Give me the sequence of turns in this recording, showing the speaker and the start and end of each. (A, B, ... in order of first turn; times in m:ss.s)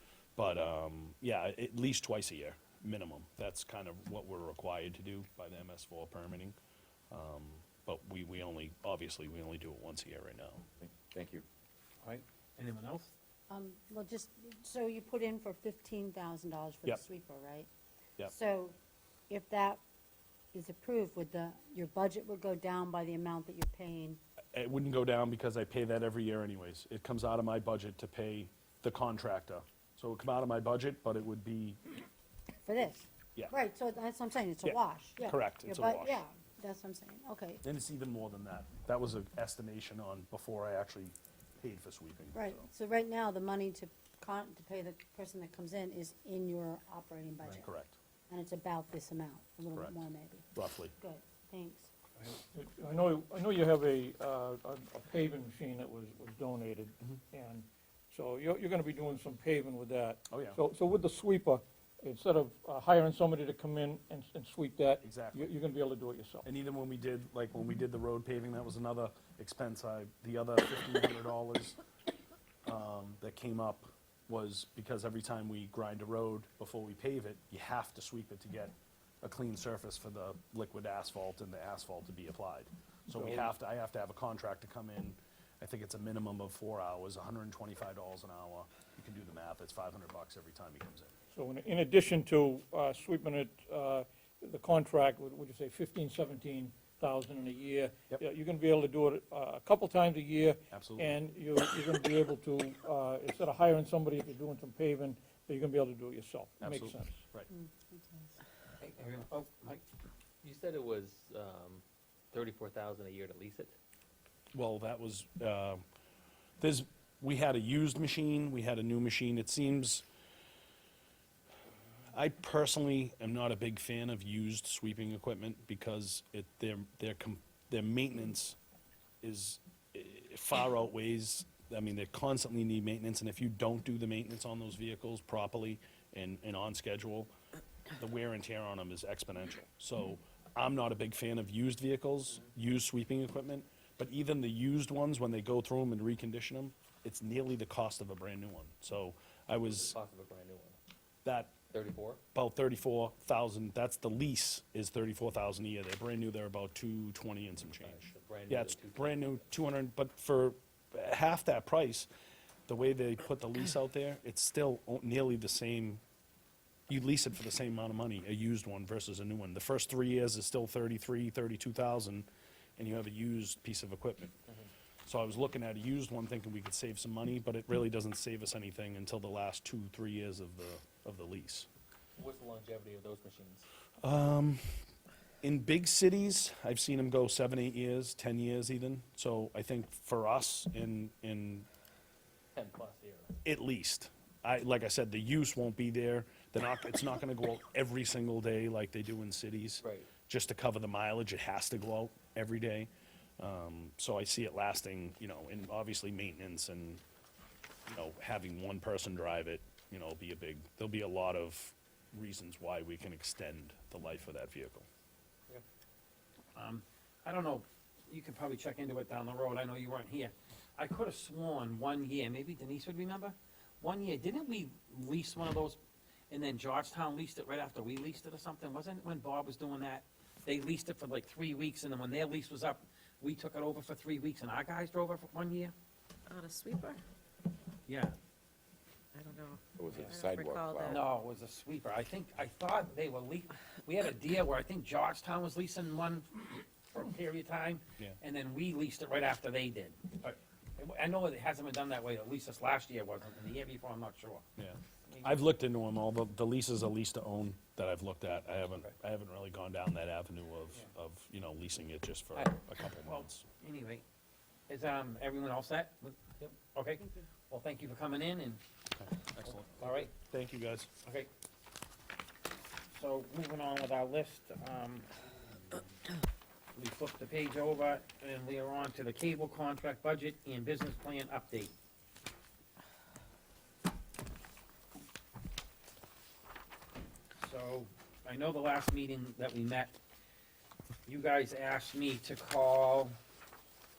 0:00.4-0:06.6 A
0:07.1-0:10.6 A
0:10.8-0:11.4 B
0:12.0-0:13.1 C
0:13.5-0:17.7 D
0:18.2-0:18.8 D
0:19.3-0:19.8 D
0:20.5-0:24.2 D
0:24.5-0:31.8 A
0:32.6-0:37.6 D
0:34.6-0:36.2 A
0:37.6-0:42.6 A
0:42.3-0:47.6 D
0:47.5-0:48.0 A
0:48.3-0:51.9 D
0:49.7-0:50.0 A
0:50.5-0:50.9 A
0:52.5-1:06.5 E
1:00.3-1:00.6 A
1:05.0-1:05.5 A
1:06.4-1:11.8 A
1:12.7-1:31.1 A
1:23.1-1:23.6 E
1:31.3-1:47.2 E
1:40.7-1:41.1 A
1:46.6-1:47.5 A
1:47.5-1:48.3 D
1:48.8-1:49.8 C
1:50.4-1:53.8 F
1:54.5-1:55.8 A
1:56.6-2:00.0 A
2:02.1-2:08.6 A
2:09.2-2:17.3 A
2:18.0-2:30.0 A
2:29.6-2:30.8 F
2:31.2-2:31.6 A
2:31.7-2:32.2 F
2:32.3-2:42.1 A
2:37.8-2:39.4 F
2:42.7-2:46.0 A
2:46.9-2:54.4 A
2:55.1-3:01.7 A
3:02.2-3:03.7 F
3:04.0-3:04.6 A
3:05.4-3:11.7 A
3:12.5-3:13.4 F
3:13.4-3:27.0 A
3:19.8-3:20.1 F
3:27.9-3:34.9 A
3:36.6-3:45.8 C
3:46.3-3:55.7 C
3:56.3-3:57.0 G
3:57.9-3:58.2 C
3:59.1-4:01.0 G
3:59.8-4:01.0 B
3:59.9-4:00.2 C
4:00.8-4:14.5 C
4:14.6-4:23.4 A
4:15.1-4:15.4 C
4:23.0-4:24.0 C
4:24.7-4:28.6 C
4:28.9-4:30.9 A
4:29.4-4:30.1 C
4:32.9-4:35.1 C
4:36.7-4:41.7 C
4:47.4-4:50.0 C
4:51.1-4:53.2 C